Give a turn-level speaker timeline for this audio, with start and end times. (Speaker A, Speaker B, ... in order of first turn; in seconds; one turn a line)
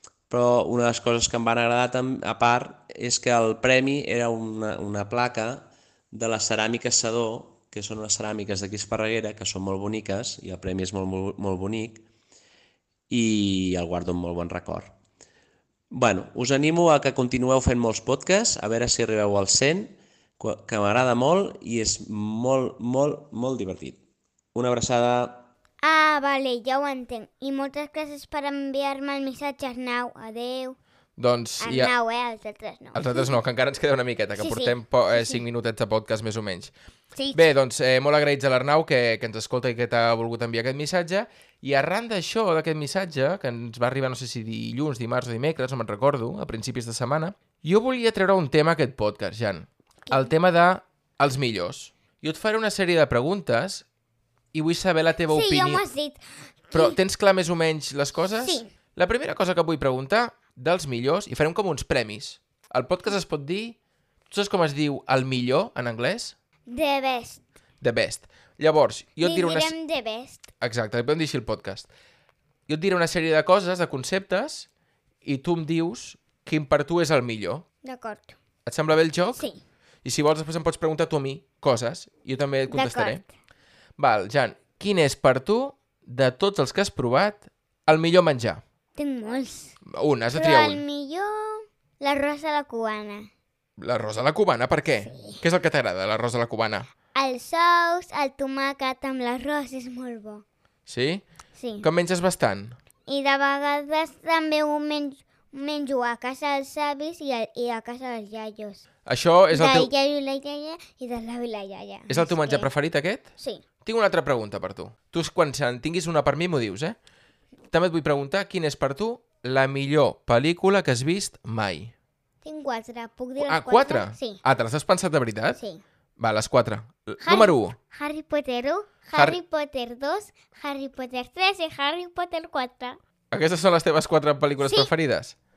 Speaker A: 0.3-12.1
Speaker A: 13.1-14.9
Speaker A: 15.9-24.0
Speaker A: 24.6-25.5
Speaker B: 25.8-30.8
Speaker C: 31.2-31.9
Speaker B: 31.6-33.4
Speaker C: 32.9-36.7
Speaker B: 34.4-35.4
Speaker B: 37.1-37.5
Speaker C: 37.3-53.9
Speaker C: 54.5-55.8
Speaker B: 55.3-57.0
Speaker C: 56.7-63.8
Speaker B: 58.3-58.7
Speaker C: 64.3-66.3
Speaker B: 66.7-67.4
Speaker C: 67.8-69.7
Speaker B: 69.2-70.5
Speaker C: 70.6-71.9
Speaker C: 72.7-74.7
Speaker C: 75.2-77.6
Speaker B: 77.8-78.3
Speaker C: 78.7-79.5
Speaker C: 80.0-83.2
Speaker B: 82.7-83.2
Speaker C: 84.0-88.6
Speaker B: 89.0-89.8
Speaker C: 89.8-90.8
Speaker B: 90.3-93.3
Speaker C: 93.8-96.9
Speaker B: 95.0-95.4
Speaker B: 97.1-100.4
Speaker C: 100.9-101.2
Speaker B: 101.6-101.9
Speaker C: 101.8-102.8
Speaker B: 103.1-108.8
Speaker C: 109.1-109.9
Speaker B: 109.5-112.7
Speaker C: 112.1-113.2
Speaker B: 113.4-113.6
Speaker C: 113.8-117.0
Speaker C: 117.7-121.9
Speaker B: 122.4-124.4
Speaker C: 123.4-125.6
Speaker B: 125.5-125.8
Speaker C: 126.2-127.8
Speaker B: 127.2-133.0
Speaker C: 133.3-135.3
Speaker B: 134.6-134.9